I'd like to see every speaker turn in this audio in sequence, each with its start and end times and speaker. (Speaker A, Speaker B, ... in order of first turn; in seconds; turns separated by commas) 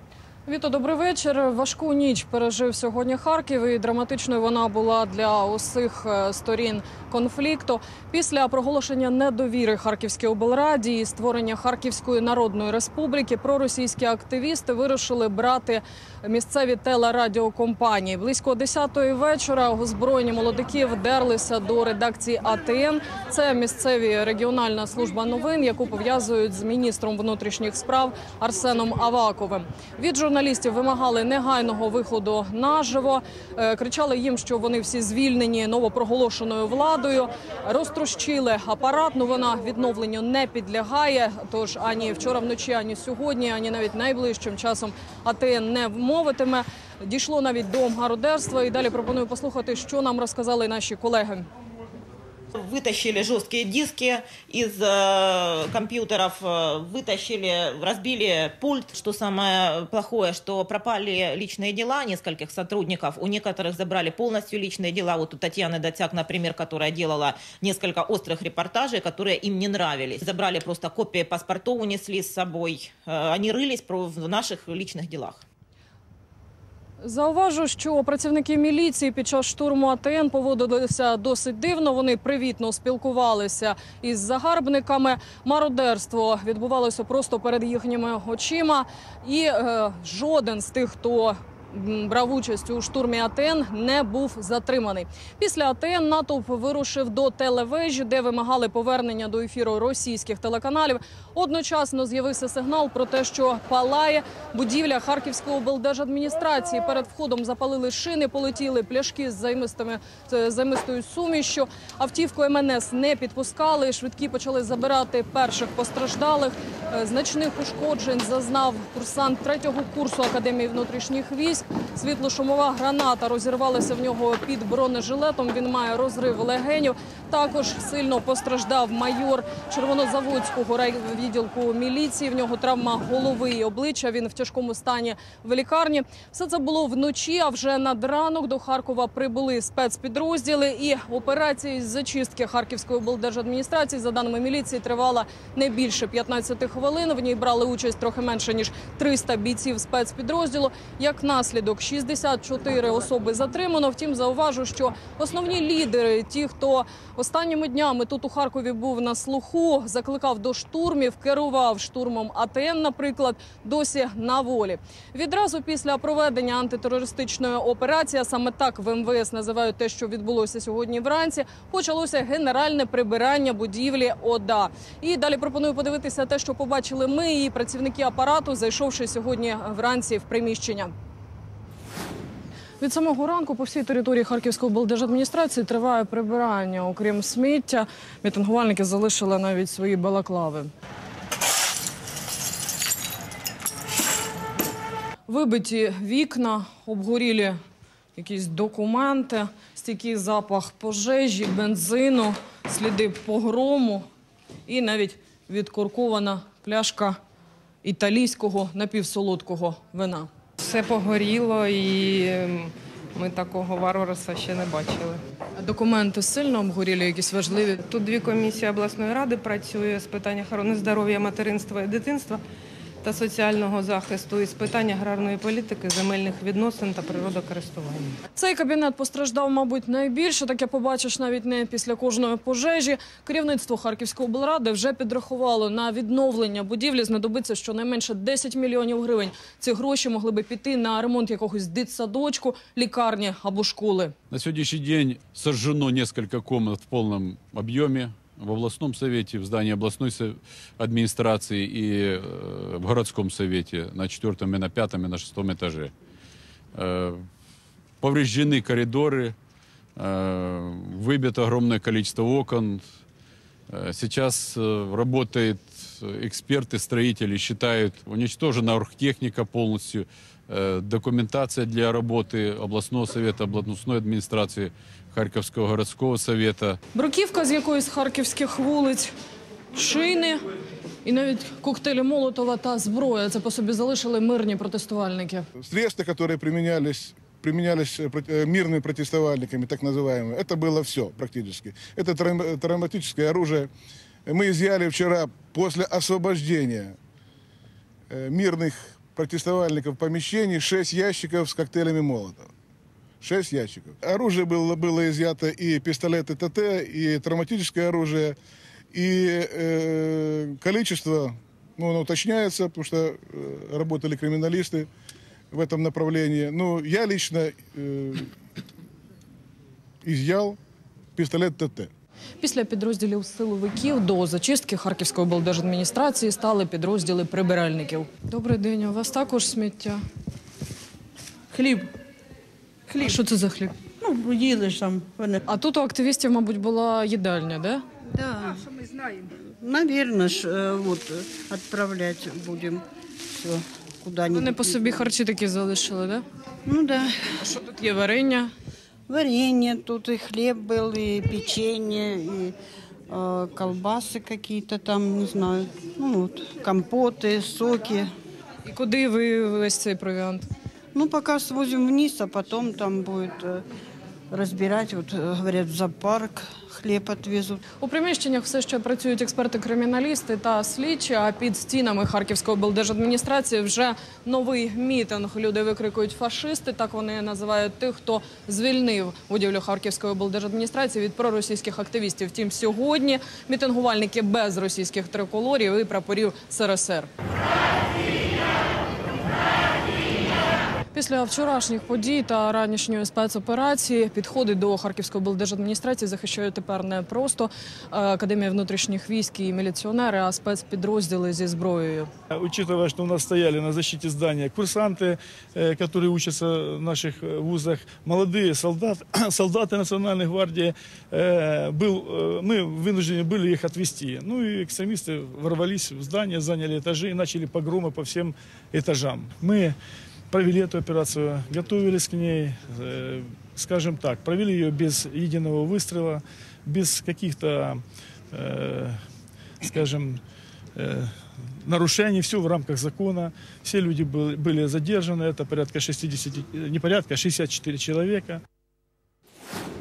Speaker A: 0.5-51.5, Speaker B: 52.6-75.4, Speaker A: 77.0-180.9, Speaker A: 182.8-190.7, Speaker A: 195.3-197.6, Speaker A: 198.2-204.1, Speaker A: 204.7-207.2, Speaker A: 207.8-210.3, Speaker C: 210.7-215.2, Speaker A: 215.6-217.8, Speaker C: 217.9-222.4, Speaker C: 223.0-228.1, Speaker A: 228.3-244.1, Speaker D: 244.3-255.9, Speaker D: 256.8-257.2, Speaker D: 258.0-259.4, Speaker D: 260.0-262.8, Speaker D: 263.7-276.8, Speaker A: 276.9-279.1, Speaker A: 279.7-280.4, Speaker A: 281.1-285.5, Speaker E: 285.6-293.7, Speaker E: 294.3-297.0, Speaker E: 298.1-302.5, Speaker E: 303.2-308.4, Speaker E: 308.9-314.9, Speaker E: 315.5-318.3, Speaker E: 320.0-320.6, Speaker E: 321.2-321.9, Speaker A: 322.4-330.0, Speaker F: 331.5-331.9, Speaker F: 332.9-333.2, Speaker A: 333.0-333.7, Speaker F: 334.0-335.4, Speaker A: 335.5-337.8, Speaker F: 338.1-338.7, Speaker F: 339.4-345.0, Speaker A: 344.3-346.2, Speaker F: 346.7-347.2, Speaker A: 347.4-348.5, Speaker F: 349.1-352.6, Speaker F: 353.1-358.1, Speaker A: 358.6-360.5, Speaker F: 360.9-363.6, Speaker F: 364.3-367.6, Speaker A: 367.8-387.1, Speaker A: 390.9-402.1, Speaker G: 402.3-419.8, Speaker G: 420.3-429.0, Speaker G: 429.6-430.2, Speaker G: 430.8-438.4